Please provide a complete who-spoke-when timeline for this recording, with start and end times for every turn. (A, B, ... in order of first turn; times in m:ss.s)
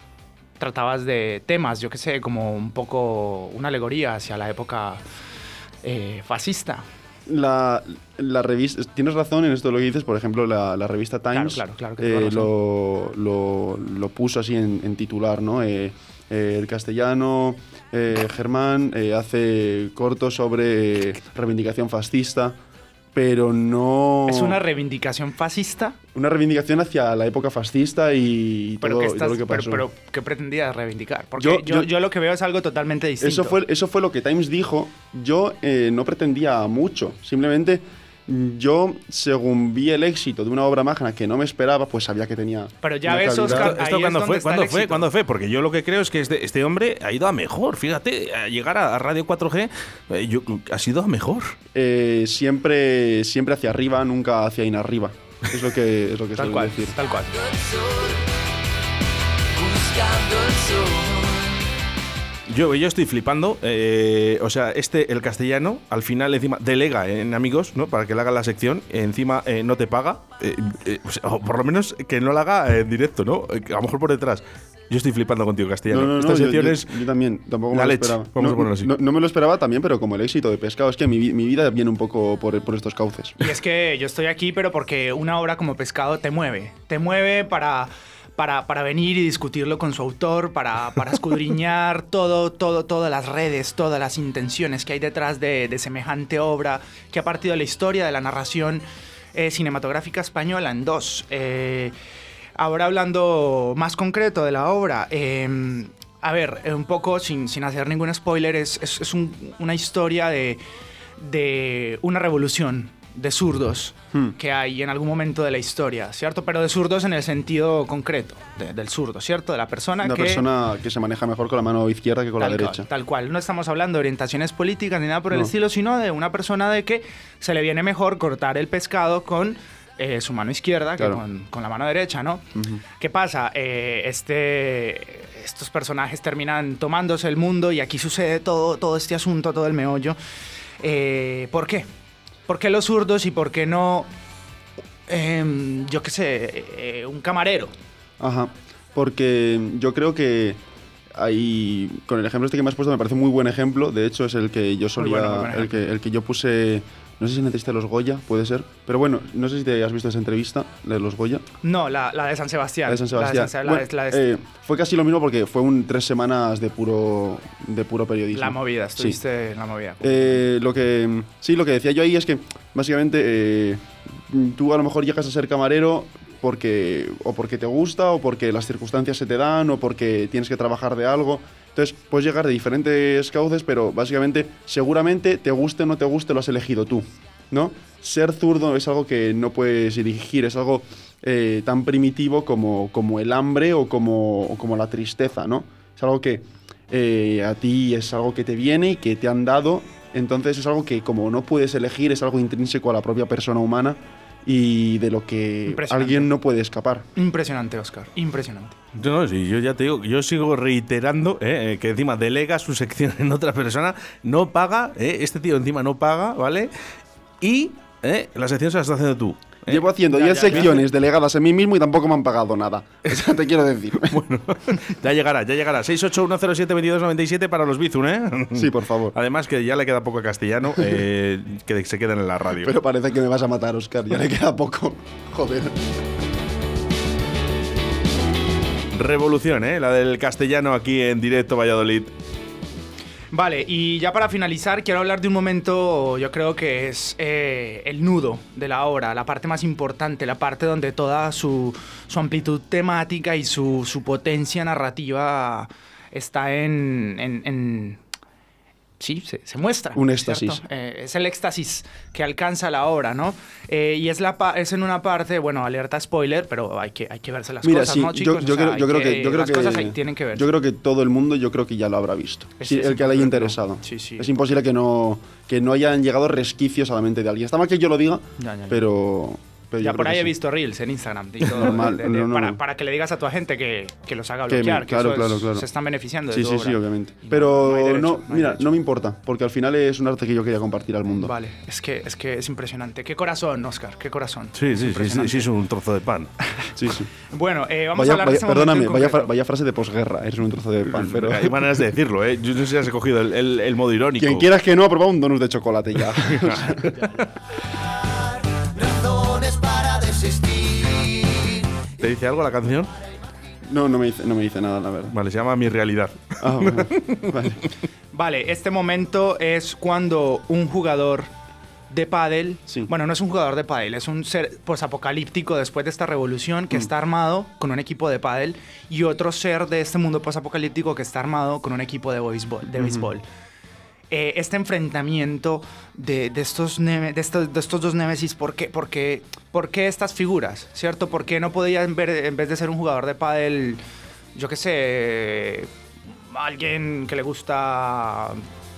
0:00.6-0:05.0 A
0:05.8-0:06.8 A
0:07.3-0:22.6 B
0:11.3-0:12.5 A
0:23.1-0:24.6 B
0:24.2-0:26.0 A
0:26.1-0:29.8 B
0:28.8-0:33.6 A
0:31.4-0:31.9 B
0:33.2-0:43.8 B
0:42.8-0:45.1 A
0:43.4-0:51.5 C
0:51.7-0:57.0 B
0:56.4-0:58.2 A
0:59.6-1:01.3 A
1:02.5-1:17.0 C
1:15.9-1:23.4 B
1:17.7-1:18.9 C
1:23.4-1:41.9 A
1:42.6-1:50.6 A
1:51.2-2:00.5 A
2:00.0-2:02.9 B
2:02.4-2:20.2 A
2:12.5-2:12.8 B
2:20.8-2:21.8 A
2:22.5-2:24.1 A
2:25.1-2:27.7 A
2:28.2-2:30.6 B
2:31.2-2:41.4 B
2:35.0-2:35.7 A
2:41.6-2:44.3 A
2:42.9-2:49.2 B
2:48.3-2:50.4 A
2:50.0-3:27.0 B
3:25.7-3:26.3 A
3:27.1-3:28.8 A
3:28.9-3:36.7 C
3:37.4-3:39.9 C
3:39.7-3:44.2 B
3:40.1-3:40.9 A
3:44.0-3:52.7 C
3:48.5-3:49.1 B
3:52.6-3:55.7 B
3:58.9-4:02.1 C
4:03.3-4:18.0 A
4:19.0-4:30.5 A
4:19.9-4:20.6 B
4:27.6-4:40.3 B
4:32.6-4:34.3 A
4:38.4-4:38.8 A
4:39.8-4:48.7 A
4:41.4-4:42.6 B
4:44.5-4:45.7 B
4:46.3-4:51.3 B
4:51.2-4:55.5 A
4:54.5-4:56.3 C
4:56.7-4:57.1 B
4:57.3-4:59.3 A
4:57.9-5:01.8 B
5:00.9-5:04.5 C
5:04.2-5:07.1 B
5:06.3-5:07.2 C
5:08.8-5:11.4 A
5:12.0-5:12.9 C
5:13.7-5:15.1 B
5:15.1-5:17.4 C
5:16.4-5:17.7 B
5:18.1-5:21.3 A
5:21.9-5:33.2 A
5:32.7-5:33.1 B
5:34.1-5:43.8 A
5:44.3-5:45.7 A
5:46.3-5:48.4 A